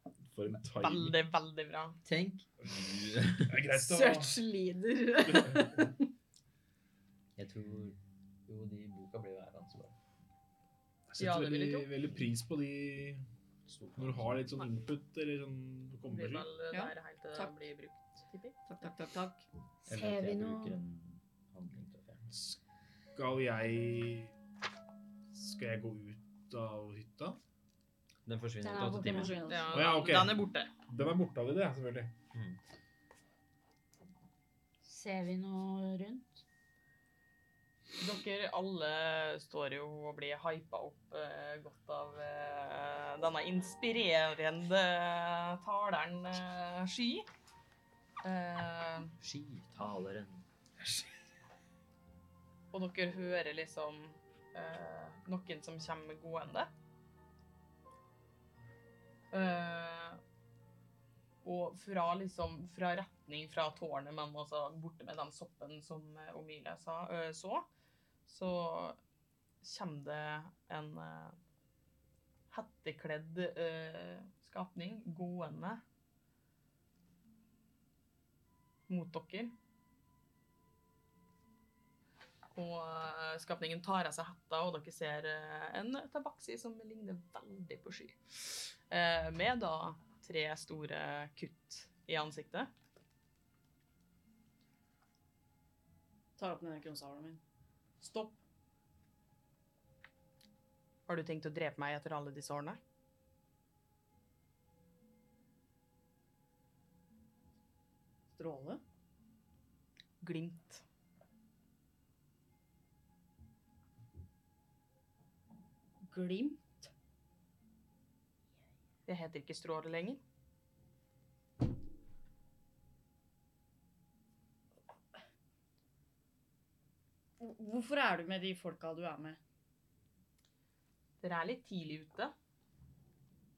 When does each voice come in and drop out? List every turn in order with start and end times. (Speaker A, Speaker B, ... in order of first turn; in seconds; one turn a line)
Speaker A: 0.3-1.1
Speaker B: 0.8-2.0
Speaker C: 2.0-3.6
Speaker A: 2.6-4.4
Speaker D: 3.7-6.1
Speaker A: 5.2-5.7
Speaker C: 7.4-9.9
Speaker A: 11.1-13.2
Speaker B: 11.2-11.9
Speaker C: 13.7-14.6
Speaker A: 14.0-16.5
Speaker B: 16.1-18.6
Speaker D: 16.7-17.7
Speaker D: 18.7-19.5
Speaker E: 19.9-20.8
Speaker C: 19.9-22.5
Speaker A: 23.1-24.3
Speaker A: 25.3-27.4
Speaker C: 28.2-29.4
Speaker E: 28.6-29.5
Speaker D: 29.0-29.9
Speaker B: 29.4-30.7
Speaker A: 29.7-32.1
Speaker E: 34.8-36.4
Speaker B: 38.0-47.3
Speaker B: 48.2-49.1
Speaker C: 49.2-50.4
Speaker B: 52.7-56.7
Speaker B: 59.3-60.2
Speaker B: 61.4-67.7
Speaker B: 68.2-69.0
Speaker B: 69.6-71.3
Speaker B: 72.5-75.8
Speaker B: 78.9-79.5
Speaker B: 82.5-88.2
Speaker B: 88.9-92.7
Speaker D: 96.4-97.4
Speaker D: 98.0-98.4
Speaker B: 101.1-102.8
Speaker D: 108.3-108.8
Speaker B: 110.2-110.8
Speaker D: 116.0-116.9
Speaker B: 119.1-120.2
Speaker D: 127.4-129.4
Speaker B: 131.2-132.3